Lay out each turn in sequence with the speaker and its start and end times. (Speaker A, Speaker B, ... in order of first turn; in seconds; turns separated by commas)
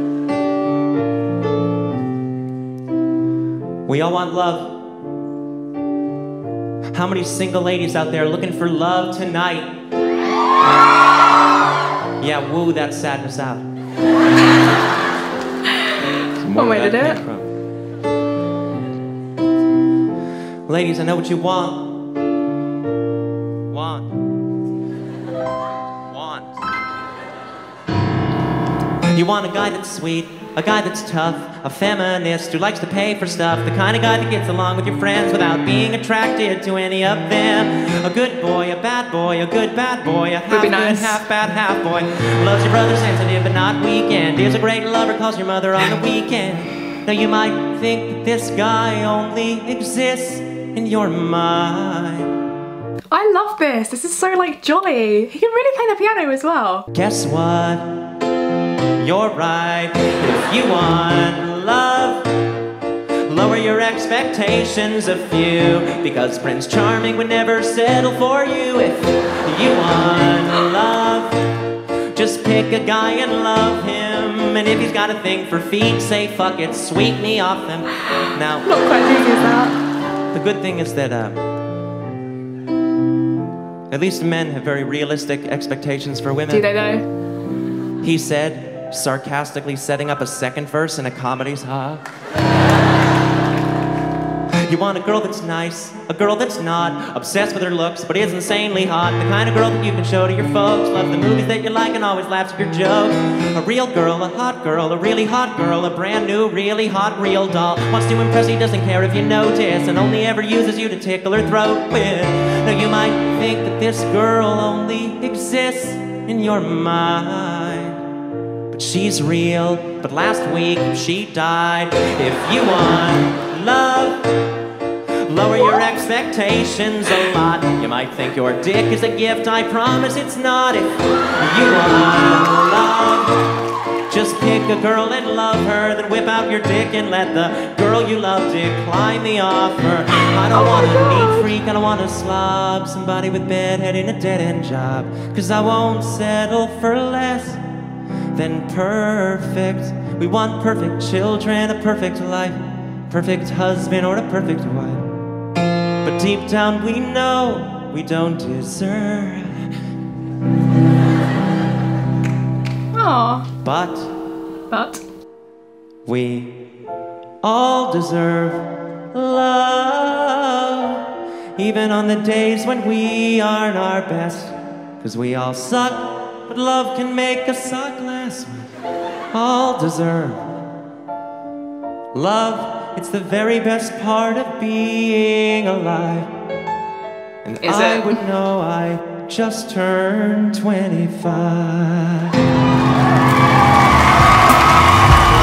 Speaker A: 3.9-4.9, Speaker A: 6.9-9.7, Speaker A: 12.2-13.6, Speaker A: 16.4-17.5, Speaker B: 16.6-17.2, Speaker A: 20.7-22.0, Speaker A: 23.7-24.1, Speaker A: 26.1-26.6, Speaker A: 29.1-52.3, Speaker B: 40.5-41.2, Speaker B: 53.1-56.9, Speaker A: 56.9-58.0, Speaker A: 59.0-62.3, Speaker A: 63.3-71.4, Speaker A: 72.1-78.7, Speaker B: 78.6-79.8, Speaker A: 80.3-81.4, Speaker A: 83.9-86.7, Speaker B: 86.5-87.0, Speaker A: 88.0-92.0, Speaker A: 94.7-118.0, Speaker A: 118.7-124.2, Speaker A: 125.3-133.4, Speaker A: 134.1-147.6, Speaker B: 140.5-141.5, Speaker A: 148.3-155.1, Speaker A: 156.0-159.6, Speaker B: 162.9-163.5, Speaker A: 163.6-164.1, Speaker B: 164.7-165.0, Speaker A: 166.1-166.7, Speaker A: 167.4-178.7, Speaker A: 179.3-180.5, Speaker A: 182.1-186.3, Speaker A: 187.4-192.4, Speaker B: 187.6-188.2